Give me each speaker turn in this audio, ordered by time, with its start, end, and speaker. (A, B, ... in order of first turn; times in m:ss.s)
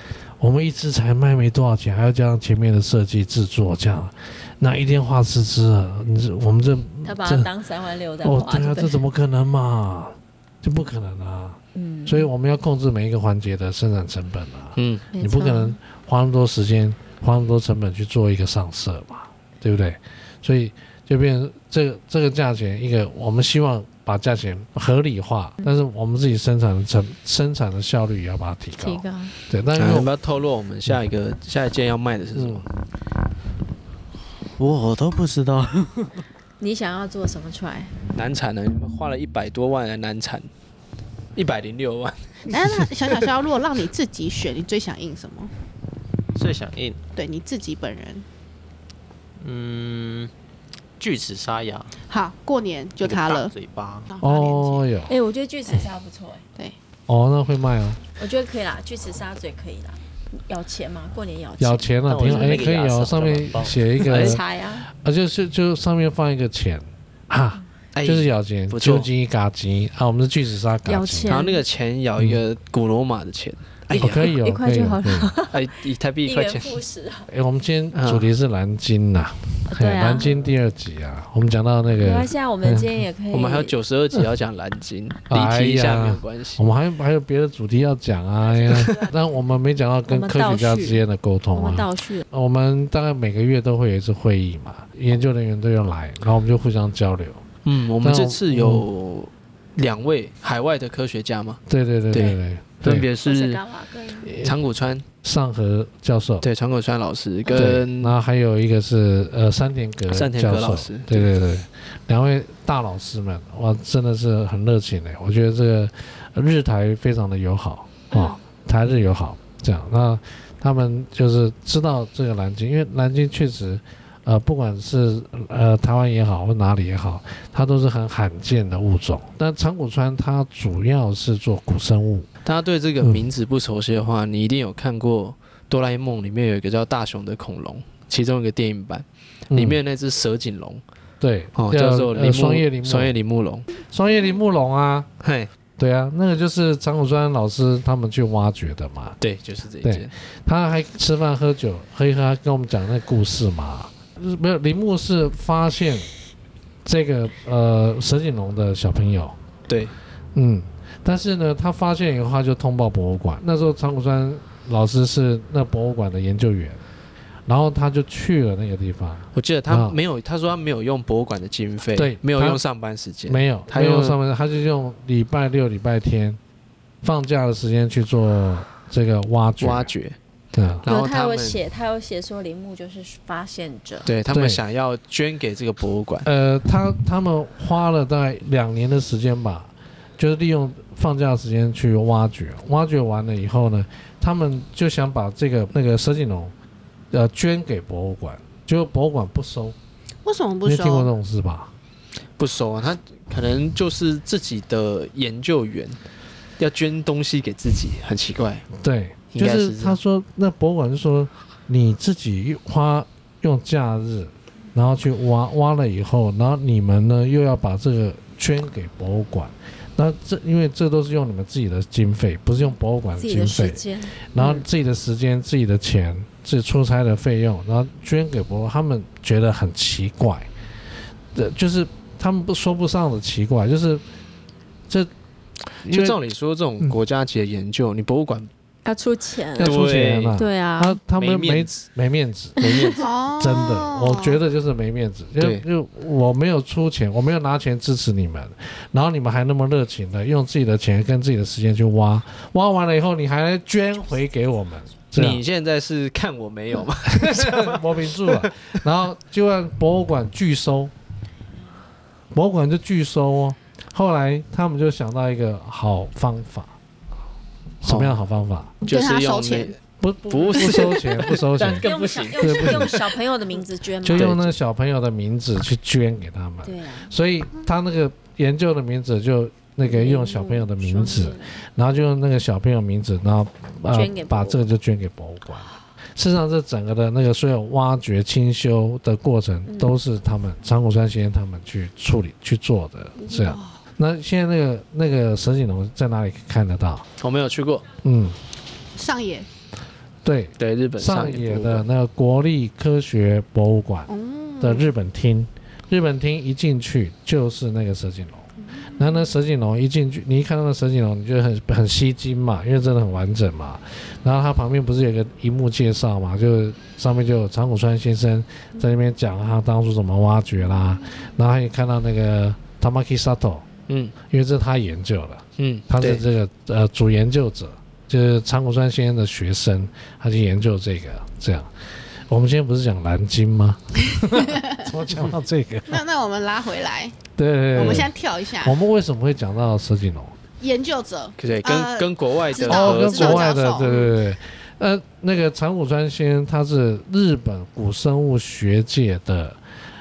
0:00.4-0:07.5 A
0:07.0-0:09.0 B
0:08.2-0:30.1 A
0:11.8-0:12.3 B
0:14.8-0:15.0 C
0:15.1-0:15.8 B
0:28.8-0:29.3 B
0:29.8-0:32.6 C
0:32.4-0:32.6 A
0:34.6-0:36.1 D
0:36.6-0:38.0 B
0:38.1-0:40.5 C
0:41.4-0:42.5 C
0:42.5-0:45.5 E
0:46.4-0:47.0 D
0:47.2-0:48.3 E
0:49.4-0:50.3 D
0:51.0-0:51.9 D
0:52.1-0:53.5 E
0:53.0-0:54.1 D
0:54.1-0:54.8 E
0:54.2-0:55.2 A
0:55.1-0:56.4 B
0:57.1-0:58.0 A
0:58.2-1:02.5 B
1:01.6-1:11.4 A
1:02.1-1:02.8 C
1:02.1-1:03.8 D
1:04.0-1:04.4 C
1:04.1-1:04.9 B
1:08.0-1:09.1 C
1:10.9-1:11.6 B
1:11.3-1:14.3 C
1:13.9-1:17.3 B
1:13.9-1:15.3 A
1:15.5-1:16.8 C
1:17.3-1:22.9 A
1:17.9-1:18.3 C
1:19.7-1:20.3 B
1:22.0-1:23.8 B
1:23.3-1:26.6 C
1:25.3-1:37.4 A
1:28.6-1:29.0 B
1:30.1-1:32.2 B
1:37.6-1:41.6 C
1:38.0-1:38.8 A
1:41.7-1:43.1 A
1:42.1-1:43.6 C
1:43.2-1:44.4 B
1:44.2-1:44.6 A
1:44.3-1:45.1 C
1:45.2-1:46.5 A
1:46.4-1:48.2 C
1:47.5-2:12.3 A
1:50.1-1:51.3 C
2:12.4-2:20.8 C
2:19.5-2:19.8 A
2:21.2-2:23.2 A
2:21.6-2:23.7 C
2:23.8-2:25.1 A
2:25.2-2:25.5 C
2:25.8-2:29.2 A
2:29.2-2:30.1 C
2:29.8-2:36.1 A
2:36.8-2:39.4 A
2:39.7-2:39.9 C
2:40.3-2:46.8 A
2:47.5-2:50.0 A
2:49.3-2:54.2 C
2:52.0-2:52.6 A
2:53.3-2:56.4 A
2:57.0-2:59.9 A
2:59.6-3:00.2 C
3:00.5-3:00.8 A
3:00.8-3:01.6 C
3:00.9-3:04.1 B
3:04.0-3:06.3 C
3:04.3-3:04.6 A
3:06.2-3:16.5 A
3:17.1-3:19.8 A
3:20.2-3:21.1 E
3:20.6-3:21.7 A
3:22.4-3:26.0 C
3:26.6-3:28.7 C
3:28.8-3:50.5 A
3:29.3-3:30.0 C
3:43.2-3:44.6 B
3:51.3-3:54.0 A
3:55.8-3:58.5 C
3:55.8-3:56.2 A
3:58.8-3:59.8 B
3:59.6-4:02.6 A
3:59.6-4:00.4 C
4:00.3-4:01.0 B
4:01.1-4:01.8 C
4:02.6-4:03.0 C
4:02.6-4:03.0 B
4:03.0-4:04.4 E
4:03.4-4:15.4 A
4:05.4-4:05.6 C
4:15.2-4:18.5 C
4:17.1-4:20.9 A
4:22.3-4:26.7 A
4:27.8-4:28.8 A
4:27.8-4:28.2 C
4:28.8-4:33.0 C
4:28.9-4:29.7 E
4:30.0-4:33.0 A
4:31.8-4:34.5 B
4:34.0-4:57.1 A
4:34.2-4:34.4 C
4:36.6-4:37.1 B
4:39.8-4:41.6 B
4:43.9-4:44.6 B
4:49.7-4:50.0 B
4:53.3-4:53.8 E
4:57.2-4:57.8 C
4:58.0-4:58.4 A
4:59.0-4:59.5 E
5:00.2-5:23.7 A
5:00.6-5:01.9 C
5:04.1-5:04.9 E
5:08.7-5:09.2 E
5:23.9-5:24.2 C
5:24.2-5:31.7 A
5:25.6-5:26.2 C
5:32.3-5:36.0 A
5:34.4-5:34.8 E
5:35.9-5:37.2 E
5:37.4-5:40.4 A
5:37.7-5:38.8 E
5:40.6-5:44.1 E
5:41.4-5:43.5 C
5:42.6-5:49.6 A